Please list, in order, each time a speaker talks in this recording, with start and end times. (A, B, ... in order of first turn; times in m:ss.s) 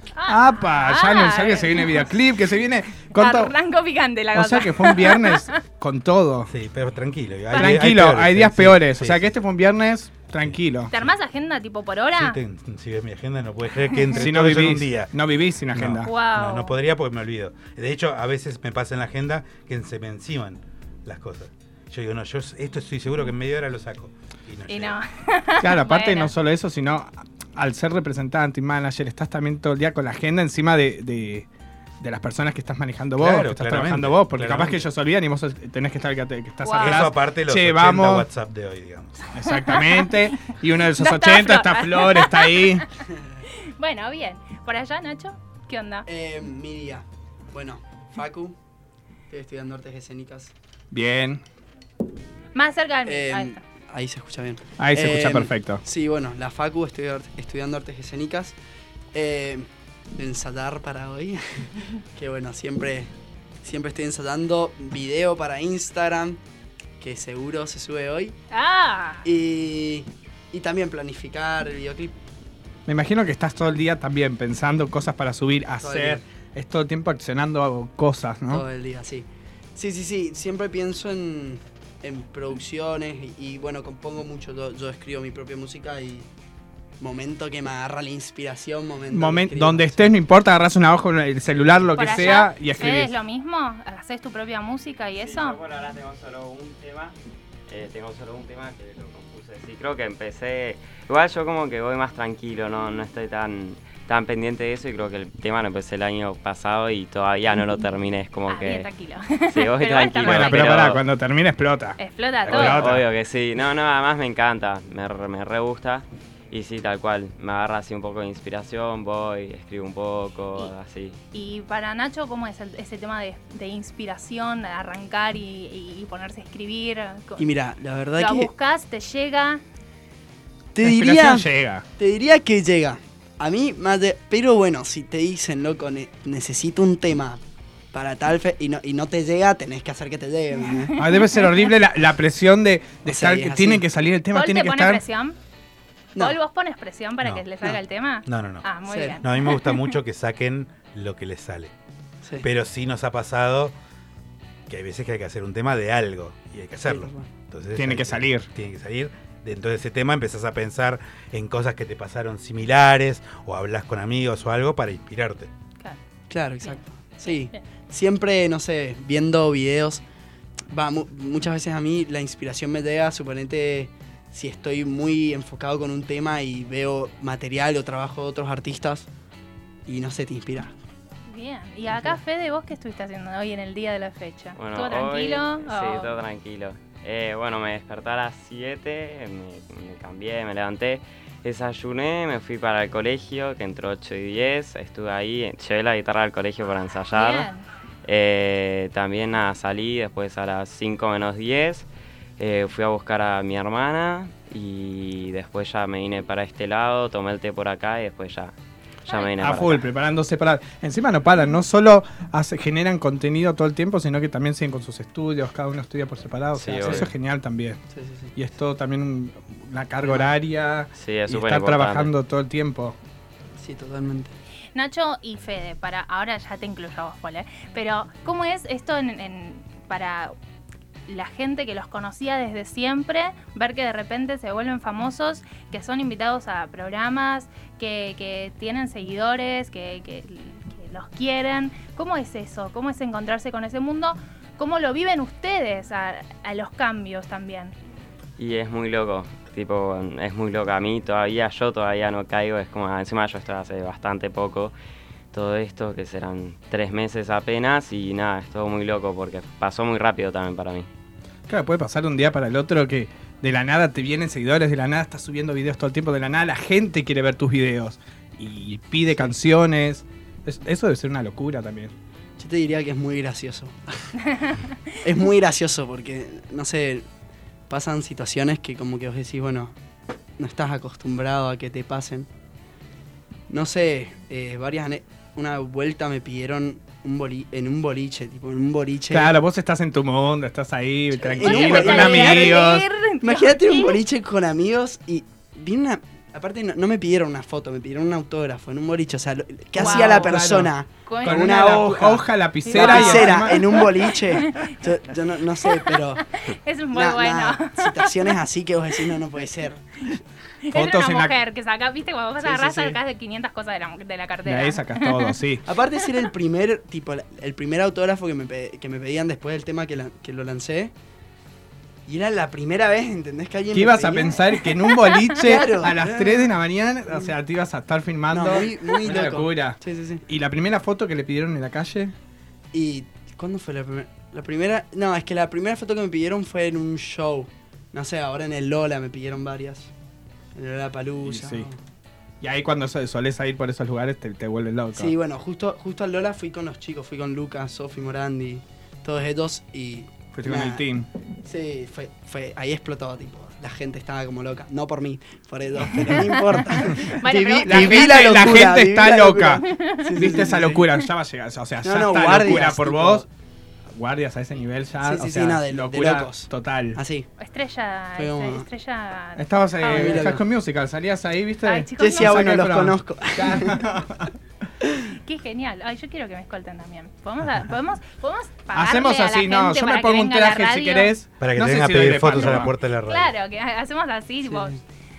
0:00.2-0:02.1 A
0:00.3-0:03.5 B
0:03.1-0:05.6 A
0:04.3-0:06.5 B
0:06.5-0:09.3 C
0:07.5-0:10.9 B
0:10.9-0:12.4 A
0:12.2-0:15.1 C
0:13.9-0:14.2 A
0:14.2-0:16.1 B
0:15.7-0:25.0 C
0:16.0-0:16.7 A
0:24.7-0:26.3 A
0:25.6-0:31.5 B
0:32.0-0:38.3 B
0:33.2-0:34.8 C
0:36.6-0:37.0 A
0:36.8-0:39.3 C
0:39.3-0:42.8 B
0:39.5-0:40.1 A
0:41.0-0:42.8 A
0:43.5-0:46.1 A
0:46.1-0:48.6 D
0:49.3-0:50.5 D
0:50.9-0:51.4 B
0:52.5-0:53.6 A
0:53.0-0:58.5 D
0:54.8-0:55.8 B
0:59.1-1:03.1 D
1:03.6-1:06.4 D
1:07.0-1:08.3 D
1:08.5-1:09.2 A
1:09.2-1:12.1 D
1:12.9-1:18.6 B
1:15.8-1:16.2 D
1:18.5-1:26.3 D
1:27.0-1:30.1 D
1:29.1-1:33.1 B
1:32.0-1:35.6 A
1:35.2-1:37.1 E
1:37.7-1:48.9 E
1:48.5-1:50.9 A
1:49.5-1:51.0 E
1:50.2-1:53.0 B
1:52.0-1:52.8 A
1:52.5-2:01.2 E
2:01.3-2:07.4 A
2:07.4-2:08.5 D
2:08.2-2:09.6 A
2:10.8-2:17.4 D
2:10.8-2:11.8 B
2:17.9-2:21.0 D
2:20.6-2:21.7 A
2:21.0-2:25.0 B
2:23.0-2:23.9 D
2:24.3-2:25.4 A
2:26.2-2:29.9 A
2:28.2-2:31.7 C
2:28.9-2:29.2 D
2:32.4-2:33.7 C
2:34.7-2:45.5 C
2:36.9-2:37.2 D
2:37.8-2:38.5 B
2:46.3-2:50.0 D
2:46.6-2:47.6 A
2:50.7-2:59.1 D
2:59.9-3:00.7 D
3:01.3-3:06.1 A
3:04.6-3:17.5 E
3:17.1-3:17.6 A
3:18.0-3:21.8 E
3:22.4-3:28.5 E
3:29.1-3:29.9 E
3:29.4-3:37.8 B
3:36.6-3:37.1 E
3:37.9-3:38.3 D
3:38.3-3:42.9 B
3:41.0-3:42.1 E
3:43.6-3:44.3 D
3:44.7-3:50.3 A
3:51.1-4:07.7 A
4:08.4-4:14.7 E
4:15.3-4:20.9 E
4:21.5-4:31.9 B
4:32.4-4:34.0 D
4:34.3-4:34.7 A
4:35.0-4:37.0 D
4:37.7-4:39.7 D
4:40.4-4:42.3 D
4:43.5-4:49.3 D
4:49.1-4:52.8 B
4:51.1-4:54.0 A
4:51.2-5:06.2 D
4:59.8-5:03.9 B
4:59.8-5:00.4 A
5:01.0-5:01.8 A
5:02.6-5:04.7 A
5:05.7-5:08.3 A
5:06.9-5:10.2 D
5:10.6-5:15.4 A
5:10.7-5:11.3 B
5:12.4-5:13.0 D
5:14.4-5:15.6 B
5:15.6-5:20.9 D
5:22.0-5:24.7 D
5:23.7-5:32.1 B
5:24.9-5:25.4 A
5:25.4-5:26.5 D
5:28.3-5:30.2 D
5:32.7-5:39.9 D
5:40.5-5:41.8 D
5:41.2-5:41.7 B
5:42.4-5:45.1 B
5:44.9-5:50.8 D
5:50.3-5:51.1 B
5:51.4-6:00.8 D
5:56.0-5:58.3 A
5:57.6-6:03.2 B
5:59.7-6:00.3 A
6:01.8-6:03.2 D
6:03.9-6:07.0 B
6:05.0-6:07.3 D
6:07.4-6:10.3 A
6:08.2-6:08.6 D
6:09.4-6:14.3 B
6:09.8-6:10.4 D
6:11.6-6:12.5 A
6:12.0-6:13.8 D
6:15.2-6:21.1 A
6:18.7-6:22.7 B
6:21.4-6:23.3 C
6:22.3-6:24.8 A